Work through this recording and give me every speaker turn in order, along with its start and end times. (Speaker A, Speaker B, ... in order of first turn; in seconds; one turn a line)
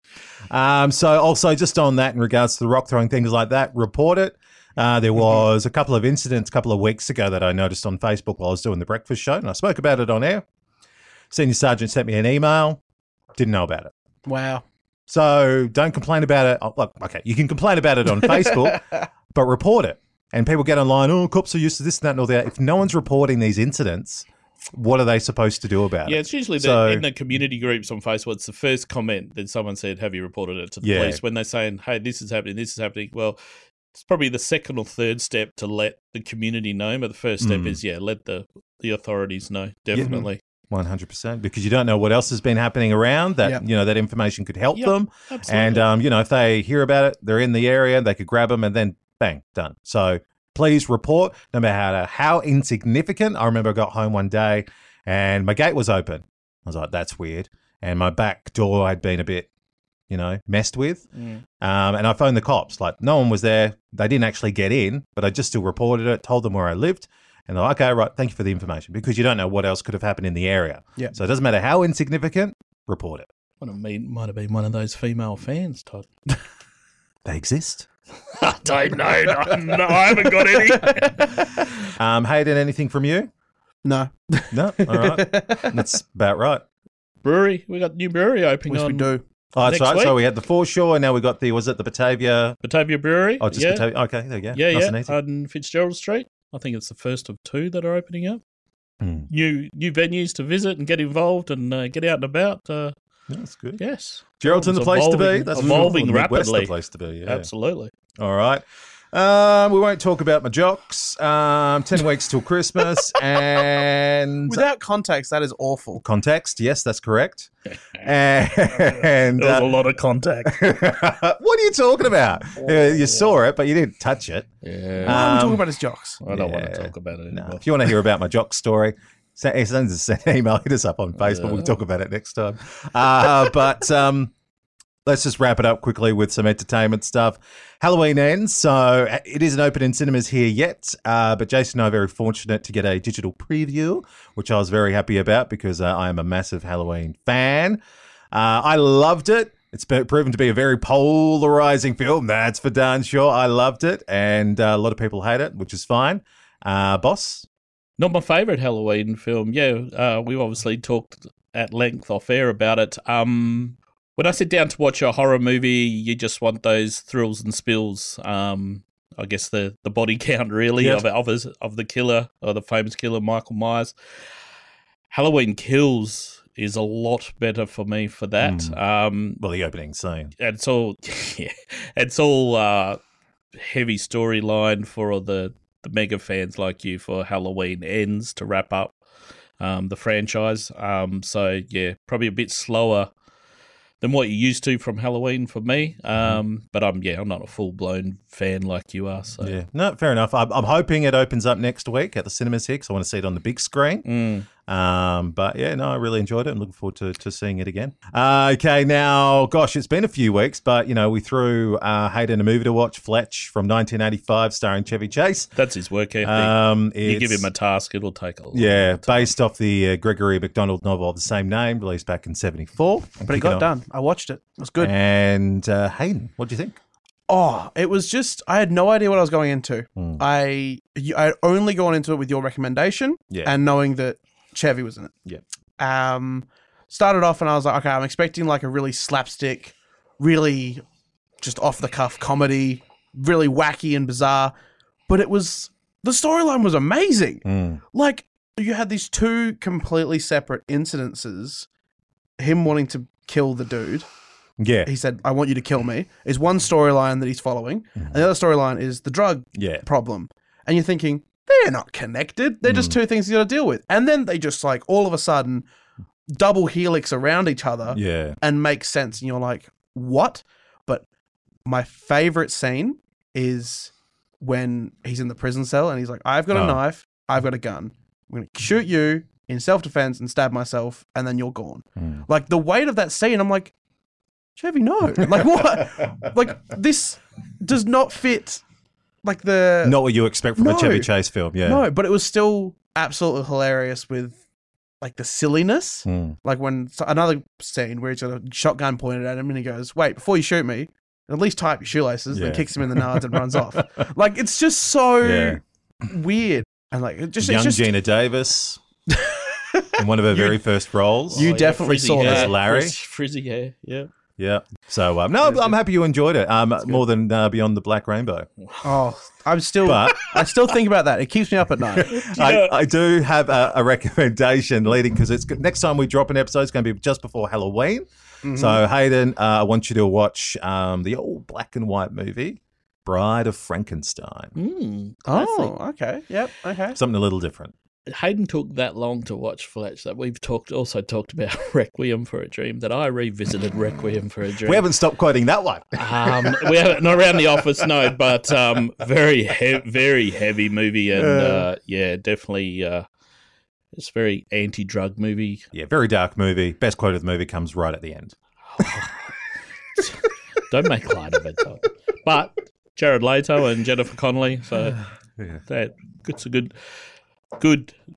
Speaker A: 0.5-10.4
Speaker A: 11.3-12.8
Speaker A: 13.3-13.9
Speaker B: 14.2-14.6
Speaker A: 15.1-27.0
Speaker B: 18.2-18.5
Speaker C: 26.0-33.4
Speaker A: 30.8-31.2
Speaker C: 33.9-40.4
Speaker A: 37.4-37.8
Speaker A: 39.9-59.5
Speaker C: 44.7-45.9
Speaker A: 60.1-61.0
Speaker C: 61.1-61.4
Speaker A: 61.6-73.3
Speaker C: 73.6-76.1
Speaker A: 77.2-77.9
Speaker C: 78.3-81.7
Speaker A: 82.0-83.3
Speaker B: 83.8-85.7
Speaker A: 84.5-86.6
Speaker C: 87.2-89.1
Speaker B: 88.7-89.2
Speaker A: 89.5-92.6
Speaker C: 89.6-90.2
Speaker C: 92.6-93.9
Speaker A: 93.4-95.2
Speaker C: 94.5-98.4
Speaker A: 99.0-99.3
Speaker C: 99.3-102.9
Speaker A: 103.3-103.8
Speaker C: 103.8-107.9
Speaker A: 104.4-107.5
Speaker A: 108.2-114.6
Speaker B: 114.5-116.0
Speaker A: 116.0-117.5
Speaker A: 118.0-119.8
Speaker C: 118.7-120.7
Speaker A: 120.4-124.5
Speaker C: 122.6-123.3
Speaker C: 124.6-125.2
Speaker A: 125.0-125.6
Speaker B: 125.0-126.2
Speaker C: 126.2-127.9
Speaker A: 126.3-134.3
Speaker C: 131.2-131.8
Speaker A: 135.1-147.8
Speaker A: 148.3-157.5
Speaker C: 158.0-173.9
Speaker A: 170.8-171.1
Speaker C: 175.1-179.4
Speaker A: 178.4-178.8
Speaker A: 179.4-180.3
Speaker C: 180.4-183.0
Speaker C: 183.5-188.9
Speaker C: 189.6-193.1
Speaker C: 194.0-199.6
Speaker A: 199.4-204.1
Speaker C: 204.0-204.5
Speaker A: 204.7-215.5
Speaker C: 215.5-219.3
Speaker A: 216.2-217.5
Speaker A: 218.5-223.7
Speaker B: 223.2-224.9
Speaker A: 224.8-226.8
Speaker B: 227.3-235.1
Speaker A: 229.9-230.2
Speaker A: 233.3-233.5
Speaker B: 235.8-240.8
Speaker B: 241.4-244.5
Speaker B: 245.1-251.7
Speaker A: 247.4-247.8
Speaker B: 252.4-254.1
Speaker A: 254.6-254.9
Speaker B: 254.8-265.6
Speaker A: 259.5-259.8
Speaker A: 262.6-262.9
Speaker B: 266.3-271.0
Speaker A: 267.9-268.4
Speaker B: 271.6-283.7
Speaker A: 276.5-276.8
Speaker A: 282.0-282.2
Speaker B: 284.6-288.6
Speaker B: 289.2-290.0
Speaker A: 289.8-291.8
Speaker B: 290.5-291.1
Speaker B: 291.6-294.4
Speaker B: 295.0-307.9
Speaker A: 296.0-296.4
Speaker A: 302.3-303.8
Speaker A: 305.2-305.6
Speaker A: 307.4-308.8
Speaker B: 309.1-310.6
Speaker A: 310.0-311.5
Speaker C: 311.3-314.1
Speaker B: 311.4-312.6
Speaker A: 312.1-312.9
Speaker A: 314.4-318.5
Speaker B: 315.4-315.7
Speaker C: 318.6-318.9
Speaker B: 318.8-322.1
Speaker A: 319.8-320.3
Speaker A: 322.0-334.5
Speaker C: 322.0-322.7
Speaker B: 328.4-328.8
Speaker C: 334.6-335.7
Speaker B: 335.2-337.0
Speaker A: 336.9-337.7
Speaker C: 338.1-344.9
Speaker A: 344.6-347.1
Speaker C: 345.9-353.1
Speaker A: 351.1-351.7
Speaker C: 353.9-355.6
Speaker A: 355.7-358.3
Speaker C: 358.8-359.3
Speaker C: 360.0-365.0
Speaker C: 365.6-366.7
Speaker C: 367.6-367.9